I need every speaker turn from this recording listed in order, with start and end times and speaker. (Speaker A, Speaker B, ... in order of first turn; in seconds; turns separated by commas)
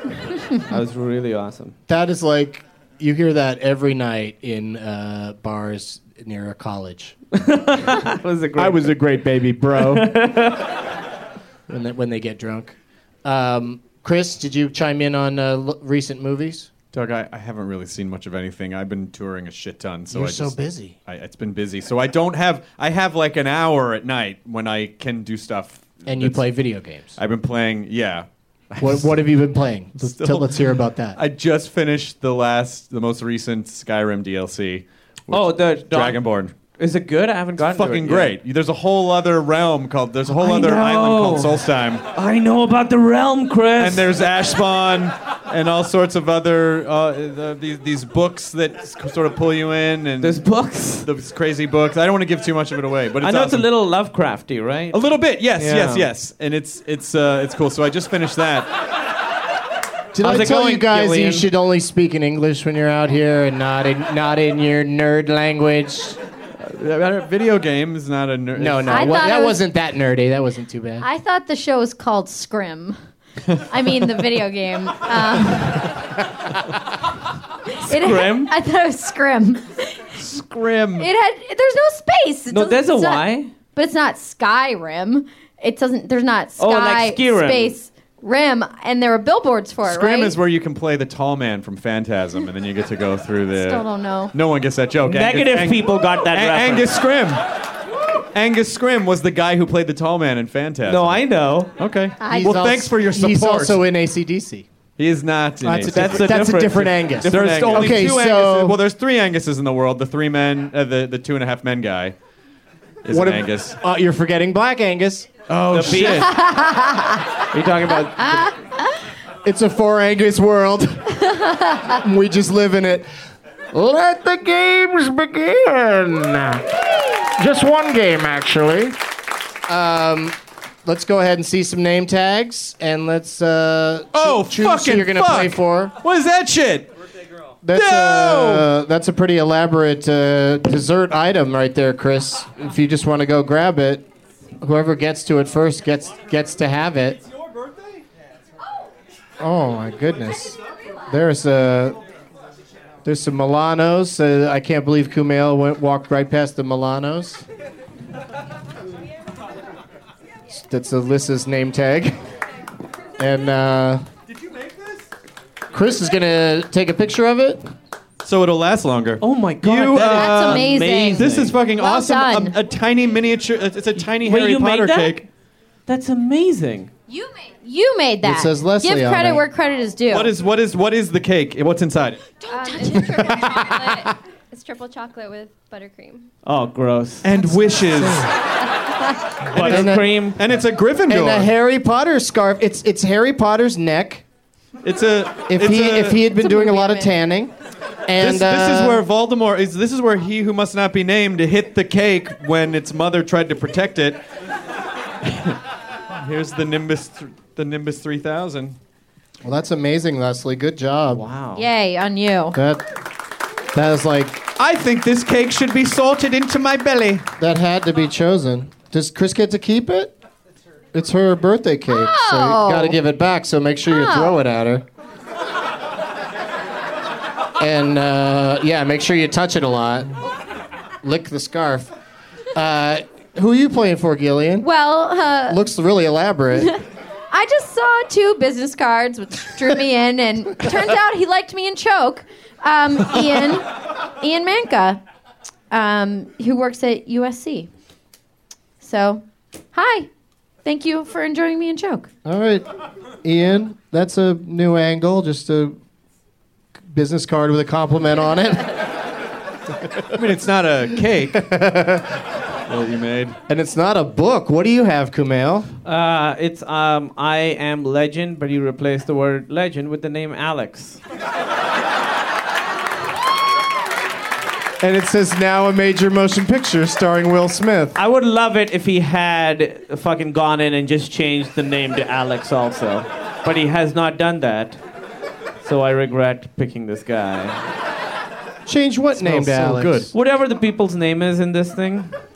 Speaker A: 0.5-1.8, Speaker B: 1.9-7.2, Speaker A: 7.3-9.0, Speaker B: 8.6-10.2, Speaker A: 9.7-10.8, Speaker B: 11.7-16.7, Speaker C: 16.9-26.4, Speaker B: 20.1-21.0, Speaker B: 26.1-27.2, Speaker C: 27.2-29.1, Speaker B: 28.8-31.2, Speaker C: 30.0-30.5, Speaker C: 31.2-36.5, Speaker A: 35.3-36.2, Speaker A: 36.8-38.3, Speaker C: 37.7-42.0, Speaker A: 40.3-44.1, Speaker C: 43.8-50.4, Speaker A: 50.2-51.1, Speaker C: 51.0-53.7, Speaker A: 53.2-55.0, Speaker C: 54.9-58.7, Speaker A: 55.6-56.1, Speaker B: 60.1-66.2, Speaker A: 60.2-61.5, Speaker C: 66.6-69.3, Speaker B: 68.5-71.1, Speaker D: 68.9-69.6, Speaker D: 71.0-73.0, Speaker D: 73.6-76.0, Speaker D: 77.7-80.1, Speaker A: 77.9-78.5, Speaker C: 80.2-81.1, Speaker D: 81.0-90.4, Speaker A: 82.5-83.5, Speaker A: 86.6-87.8, Speaker C: 89.8-97.4, Speaker D: 93.5-94.3, Speaker A: 95.0-97.0, Speaker C: 98.3-101.2, Speaker A: 100.9-101.7, Speaker C: 101.8-103.8, Speaker D: 102.2-102.6, Speaker B: 102.3-104.7, Speaker C: 105.0-106.6, Speaker B: 105.6-108.8, Speaker A: 105.9-108.2, Speaker C: 107.3-112.2, Speaker C: 113.0-113.8, Speaker B: 113.1-115.3, Speaker C: 115.5-116.4, Speaker A: 115.7-116.3, Speaker D: 116.1-117.4, Speaker A: 117.5-118.5, Speaker D: 118.2-118.9, Speaker B: 119.5-123.1, Speaker B: 123.7-129.0, Speaker B: 129.7-136.0, Speaker C: 134.1-136.9, Speaker B: 137.6-144.0, Speaker C: 137.7-138.7, Speaker B: 144.6-147.2, Speaker B: 149.4-152.0, Speaker B: 153.1-157.4, Speaker B: 160.5-162.2, Speaker B: 163.2-164.1, Speaker B: 165.7-167.6, Speaker C: 168.2-175.3, Speaker A: 169.2-171.6, Speaker D: 170.0-172.6, Speaker A: 174.1-175.2, Speaker A: 175.9-176.9, Speaker D: 177.1-180.3, Speaker B: 178.2-179.4, Speaker C: 180.1-182.2, Speaker D: 182.4-183.7, Speaker E: 182.5-186.3, Speaker B: 182.9-184.1, Speaker A: 186.4-187.3, Speaker C: 187.2-188.3, Speaker B: 187.9-188.3, Speaker A: 189.5-190.4, Speaker C: 189.5-191.5, Speaker B: 189.5-190.2, Speaker B: 191.1-194.2, Speaker C: 194.8-196.2, Speaker B: 195.5-197.5, Speaker D: 196.3-197.2, Speaker B: 198.1-199.1, Speaker C: 198.2-204.2, Speaker C: 205.3-205.6, Speaker C: 206.1-208.8, Speaker B: 209.4-211.2, Speaker A: 211.1-211.7, Speaker D: 211.6-212.6, Speaker B: 212.5-212.8, Speaker B: 213.7-214.5, Speaker C: 214.6-217.3, Speaker B: 217.4-220.1, Speaker B: 220.9-224.8, Speaker D: 221.9-223.0, Speaker D: 223.9-224.3, Speaker B: 227.6-230.2, Speaker B: 231.0-231.9, Speaker B: 232.5-234.7, Speaker D: 234.6-235.6, Speaker B: 235.5-236.7, Speaker D: 237.3-245.0, Speaker D: 245.7-247.7, Speaker D: 248.8-250.1, Speaker D: 250.6-252.1, Speaker B: 252.2-252.7, Speaker B: 253.2-255.8, Speaker B: 256.9-258.9, Speaker C: 260.1-261.4, Speaker B: 261.3-262.2, Speaker C: 262.7-263.4, Speaker B: 263.5-265.7, Speaker A: 265.9-271.0, Speaker B: 274.8-278.0, Speaker A: 277.9-284.8, Speaker A: 285.6-287.6, Speaker B: 288.7-290.1, Speaker C: 289.1-290.1, Speaker A: 290.1-292.1